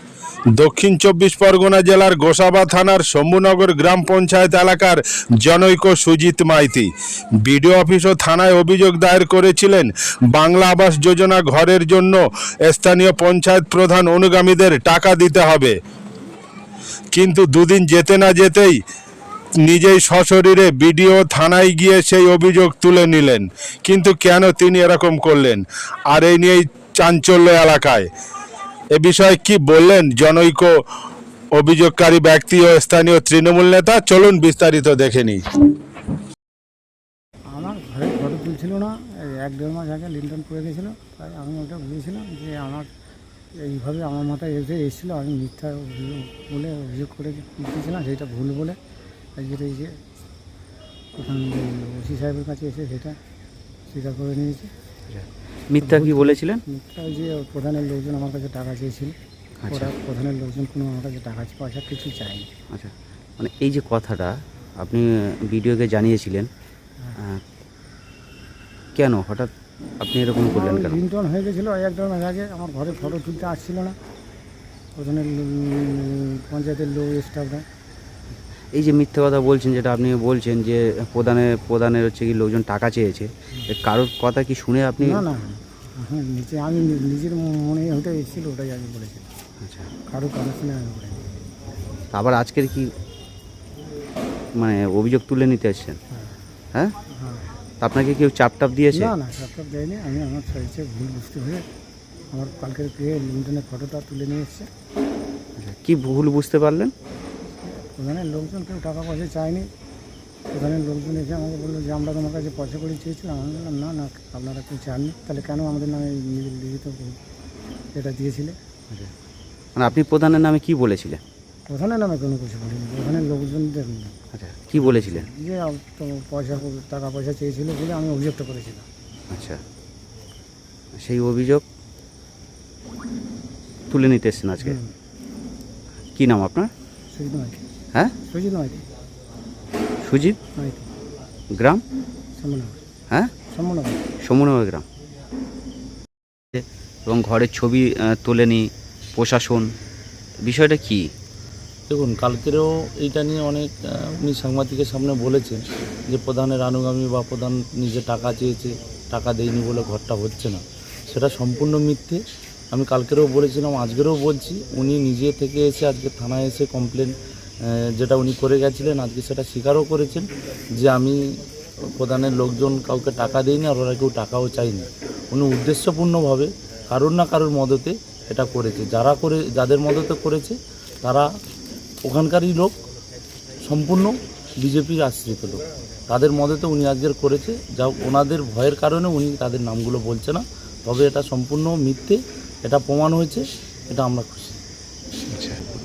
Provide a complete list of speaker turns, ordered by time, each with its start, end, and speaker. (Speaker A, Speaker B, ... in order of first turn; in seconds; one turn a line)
Speaker A: 0.6-6.9
Speaker A: 7.4-15.8
Speaker A: 17.1-18.8
Speaker A: 19.6-28.1
Speaker A: 28.9-30.7
Speaker A: 31.5-35.4
Speaker B: 37.5-42.9
Speaker B: 43.6-48.8
Speaker B: 49.4-50.0
Speaker B: 51.1-53.2
Speaker B: 53.9-54.7
Speaker C: 55.1-56.6
Speaker B: 55.8-59.2
Speaker C: 59.6-59.9
Speaker B: 59.7-62.5
Speaker C: 62.7-66.5
Speaker C: 67.2-67.4
Speaker C: 69.0-71.0
Speaker B: 70.5-74.0
Speaker B: 75.0-77.7
Speaker C: 78.7-85.2
Speaker B: 85.0-89.2
Speaker C: 89.6-89.9
Speaker B: 90.1-91.3
Speaker C: 92.1-92.9
Speaker C: 94.5-96.0
Speaker B: 97.1-97.5
Speaker C: 97.8-99.1
Speaker B: 98.9-101.7
Speaker B: 102.3-104.7
Speaker C: 105.6-106.9
Speaker B: 107.6-109.7
Speaker B: 110.5-117.2
Speaker B: 117.9-118.6
Speaker C: 119.8-121.2
Speaker B: 121.7-124.2
Speaker C: 124.3-125.3
Speaker B: 124.8-128.9
Speaker C: 129.3-129.6
Speaker C: 130.9-131.6
Speaker C: 133.9-134.8
Speaker B: 134.6-134.9
Speaker C: 136.2-136.7
Speaker B: 137.1-137.6
Speaker B: 138.2-138.8
Speaker C: 140.0-140.4
Speaker B: 140.6-140.9
Speaker C: 141.5-141.8
Speaker B: 142.4-142.8
Speaker B: 143.5-144.0
Speaker C: 144.2-144.8
Speaker C: 146.5-149.7
Speaker C: 150.4-151.1
Speaker D: 151.9-162.2
Speaker D: 162.7-167.2
Speaker D: 167.7-171.2
Speaker D: 171.9-181.2
Speaker D: 182.0-182.7
Speaker D: 183.6-194.6
Speaker C: 195.3-195.6